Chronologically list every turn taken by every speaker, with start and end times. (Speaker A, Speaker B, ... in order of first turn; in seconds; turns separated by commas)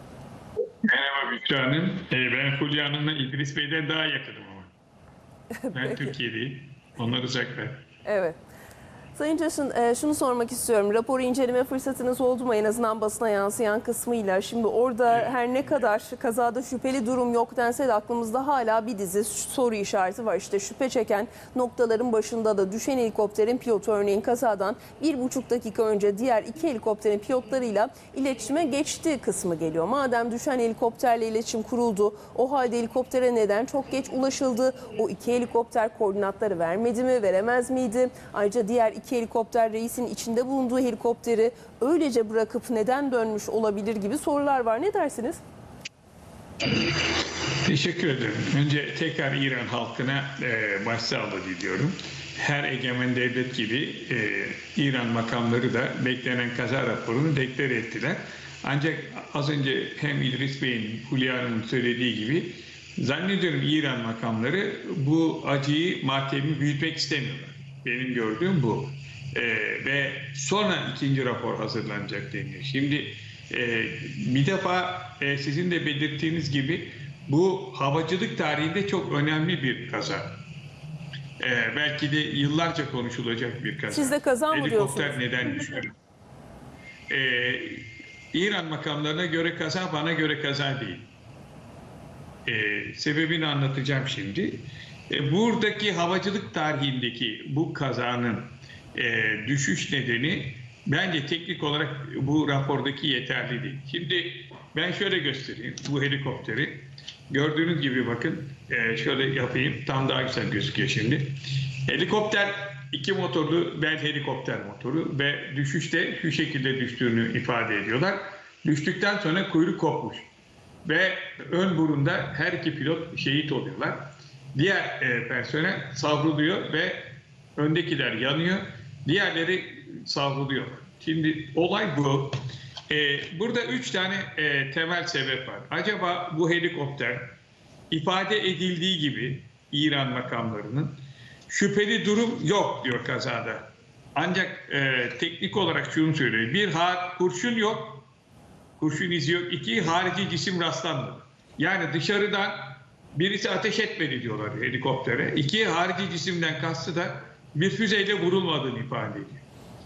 Speaker A: 0.9-4.7, Speaker B: 5.5-6.1, Speaker A: 5.7-7.8, Speaker B: 8.0-8.4, Speaker B: 9.2-45.4, Speaker A: 47.6-80.3, Speaker A: 81.4-85.9, Speaker B: 83.9-85.2, Speaker A: 87.1-91.1, Speaker A: 92.5-111.3, Speaker A: 111.9-120.3, Speaker A: 120.8-124.0, Speaker A: 124.5-132.4, Speaker A: 132.9-137.3, Speaker A: 137.9-140.9, Speaker A: 141.5-148.1, Speaker A: 148.8-159.4